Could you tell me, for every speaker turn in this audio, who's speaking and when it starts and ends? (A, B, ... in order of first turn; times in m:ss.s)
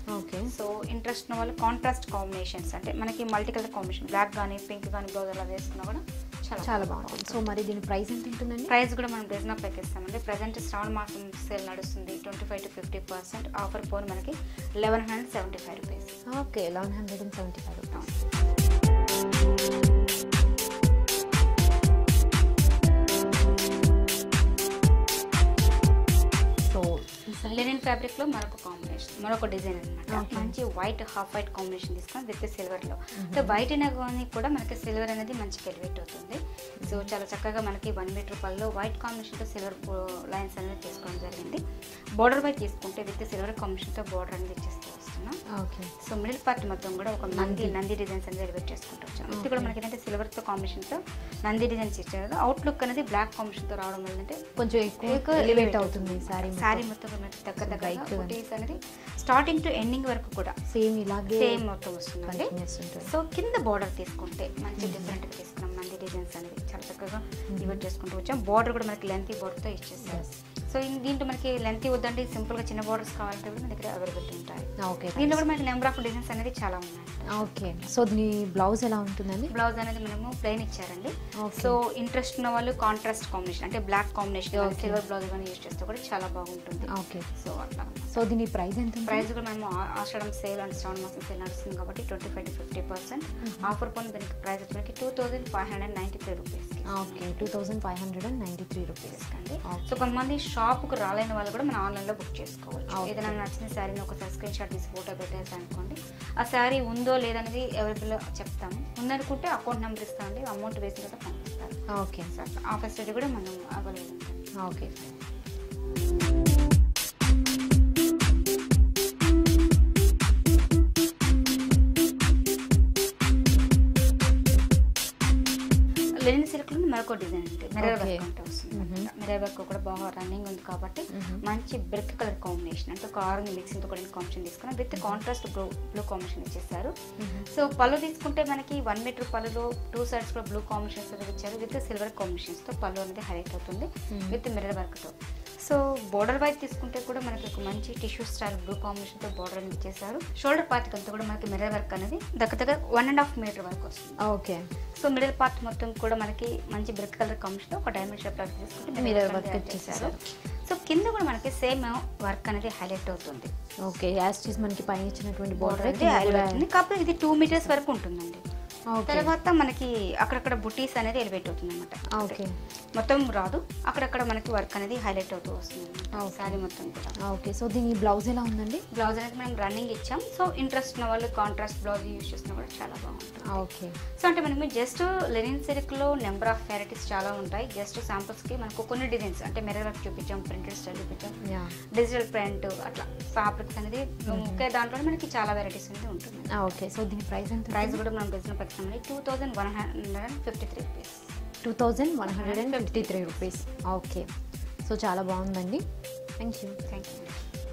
0:00.1-0:00.5 A
0:00.5-0:07.4 B
0:06.6-0:08.7 A
0:08.7-0:16.2 B
0:16.3-0:18.2 A
0:26.7-0:27.7 A
0:27.4-0:41.6 B
0:30.1-0:30.6 A
0:33.2-0:33.6 A
0:36.8-0:37.1 A
0:42.2-0:45.4 B
0:45.5-0:45.9 A
0:46.0-0:54.4 B
0:47.3-0:47.8 A
0:49.3-0:49.8 A
0:54.6-0:56.9 A
0:55.0-1:00.6 B
0:57.6-0:58.4 A
1:00.7-1:01.6 A
1:01.3-1:17.9 B
1:02.3-1:03.1 A
1:04.8-1:05.2 A
1:07.5-1:07.8 A
1:10.0-1:10.4 A
1:14.8-1:15.4 A
1:17.3-1:19.5 A
1:19.5-1:28.2 B
1:21.4-1:21.8 A
1:24.5-1:25.0 A
1:26.9-1:27.3 A
1:28.1-1:29.3 A
1:29.1-1:37.5 B
1:33.4-1:33.8 A
1:36.9-1:40.1 A
1:39.1-1:51.8 B
1:42.9-1:43.4 A
1:51.9-1:52.3 A
1:52.3-1:54.5 B
1:54.6-1:55.2 A
2:06.2-2:16.9 B
2:07.8-2:09.1 A
2:11.1-2:11.4 A
2:14.9-2:15.2 A
2:17.2-2:17.5 A
2:17.5-2:34.2 B
2:24.1-2:24.4 A
2:34.2-2:34.7 A
2:35.0-2:43.5 B
2:39.0-2:40.2 A
2:43.9-2:46.6 A
2:45.6-2:48.4 B
2:48.9-2:49.3 A
2:49.1-2:52.4 B
2:52.1-2:52.6 A
2:53.0-2:57.2 B
2:56.2-2:56.6 A
2:57.2-2:58.8 A
2:58.9-3:03.6 B
3:03.4-3:04.0 A
3:04.2-3:11.4 B
3:11.4-3:11.8 A
3:12.0-3:16.8 B
3:14.3-3:14.6 A
3:16.5-3:18.0 A
3:17.7-3:21.3 B
3:21.6-3:24.3 A
3:22.2-3:23.5 B
3:24.8-3:25.8 A
3:26.4-3:26.8 A
3:26.9-3:27.4 B